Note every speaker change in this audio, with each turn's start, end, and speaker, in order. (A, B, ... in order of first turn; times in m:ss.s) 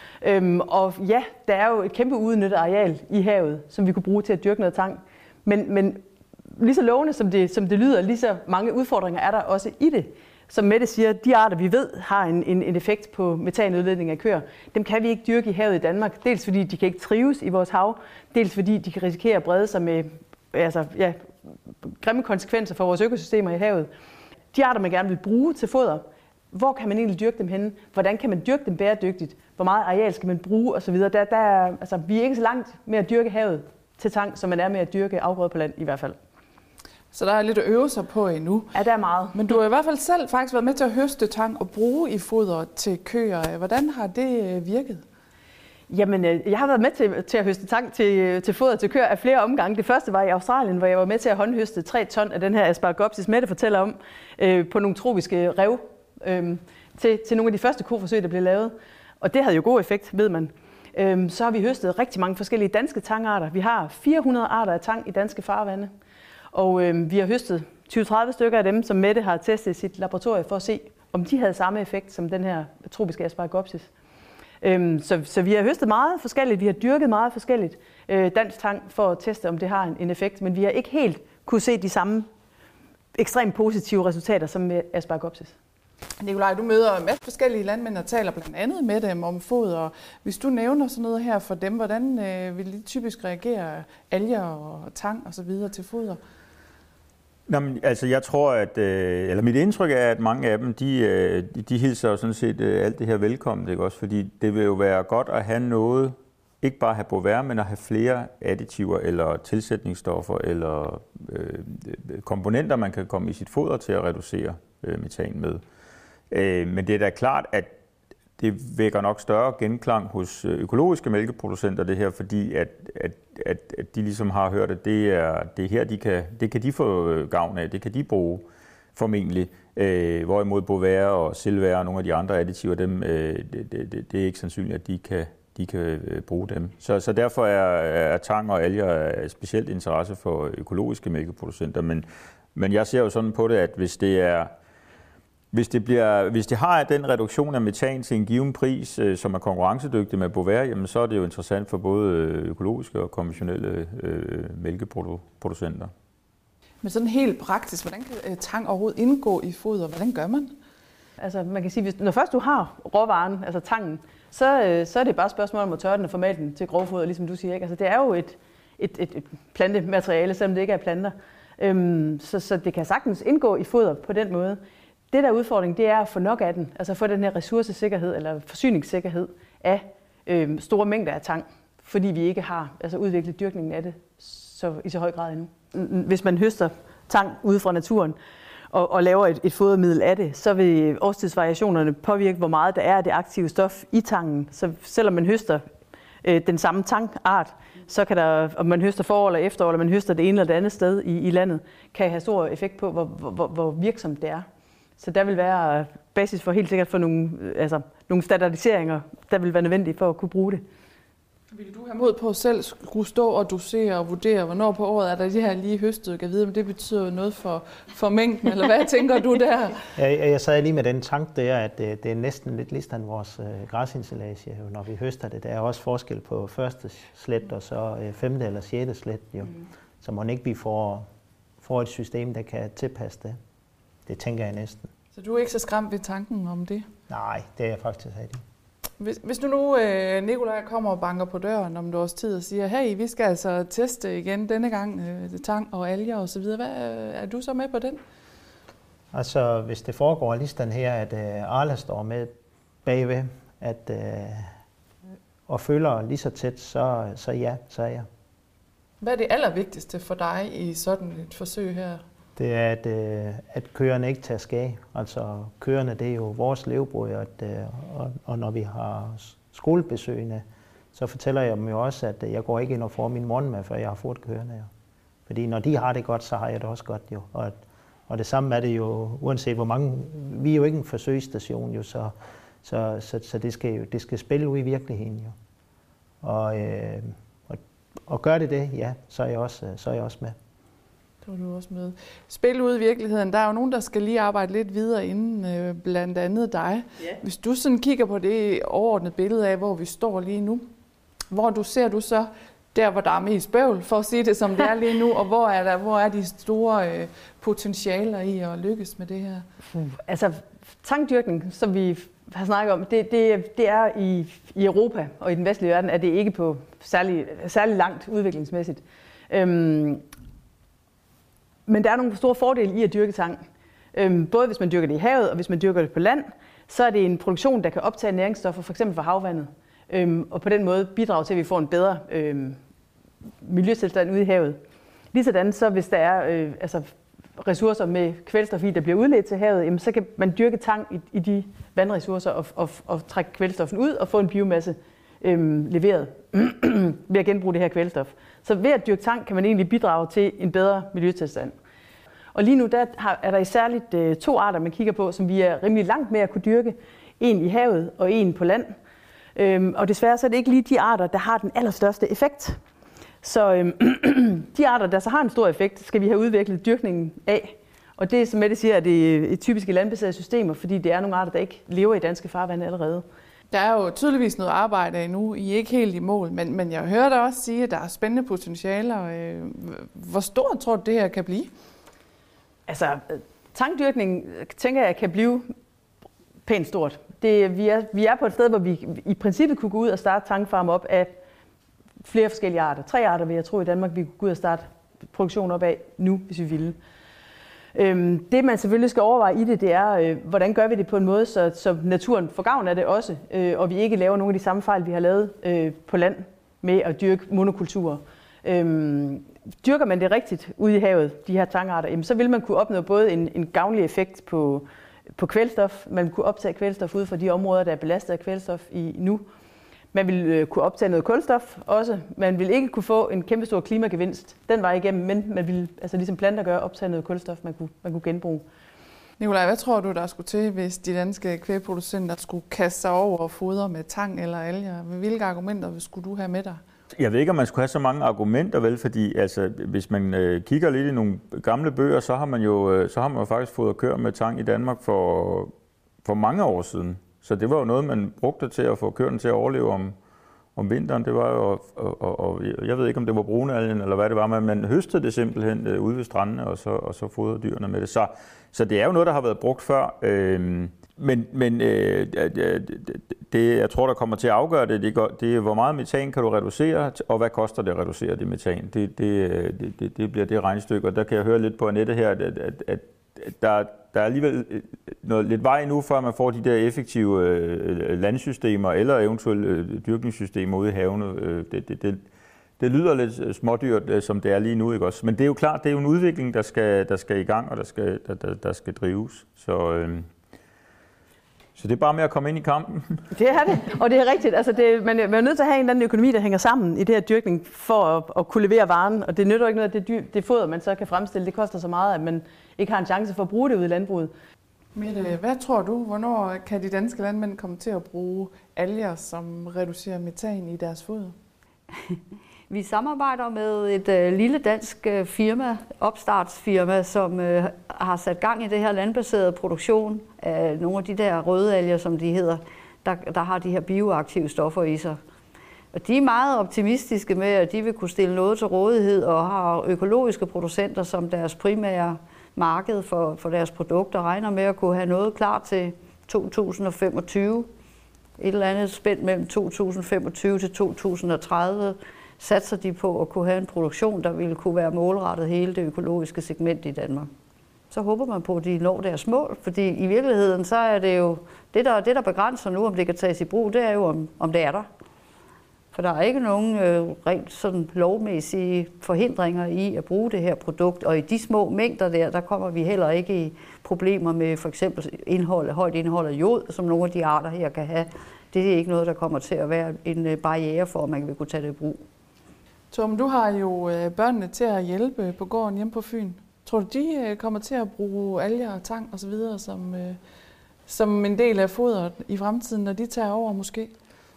0:00.2-0:23.9 A
0:24.5-0:36.2 A
0:37.1-0:38.7 B
0:38.7-0:39.4 A
0:39.3-0:45.0 B
0:45.9-1:05.9 A
1:06.5-1:13.9 A
1:14.6-1:22.3 A
1:23.2-1:25.5 A
1:26.2-1:36.2 B
1:37.5-1:55.6 C
1:56.3-1:57.7 C
1:58.4-2:08.4 C
2:08.9-2:24.5 C
2:25.5-2:35.9 C
2:36.8-2:40.5 B
2:41.2-2:54.6 A
2:55.1-3:08.2 A
3:08.7-3:15.6 A
3:16.2-3:24.4 A
3:25.0-3:30.6 A
3:31.5-3:39.8 B
3:40.0-3:51.0 D
3:51.6-3:53.4 D
3:54.1-3:54.9 D
3:55.1-3:56.8 B
3:57.1-3:58.4 D
3:59.0-4:08.0 B
4:09.1-4:12.3 D
4:12.8-4:14.5 D
4:15.5-4:18.0 D
4:19.0-4:22.0 B
4:22.4-4:34.7 D
4:35.3-4:42.1 D
4:42.6-4:45.3 D
4:46.2-4:50.4 D
4:51.2-5:00.6 B
5:01.3-5:09.4 B
5:09.8-5:20.0 A
5:21.7-5:23.4 A
5:23.9-5:32.6 A
5:33.4-5:34.6 A
5:35.1-5:51.6 A
5:52.3-5:58.8 A
5:59.4-6:02.6 A
6:03.2-6:13.0 A
6:13.5-6:21.5 B
6:22.7-6:25.5 A
6:26.4-6:31.2 A
6:32.0-6:36.8 A
6:37.8-6:59.2 A
6:59.9-7:08.4 A
7:09.2-7:16.6 B
7:17.0-7:25.5 C
7:26.0-7:30.0 C
7:30.6-8:02.0 C
8:02.6-8:10.1 C
8:11.6-8:12.8 C
8:13.1-8:24.1 A
8:24.8-8:31.1 B
8:32.5-8:45.0 E
8:45.7-8:57.5 E
8:58.2-9:07.1 E
9:07.7-9:14.6 E
9:15.7-9:31.8 E
9:32.7-9:40.0 B
9:40.7-9:43.7 B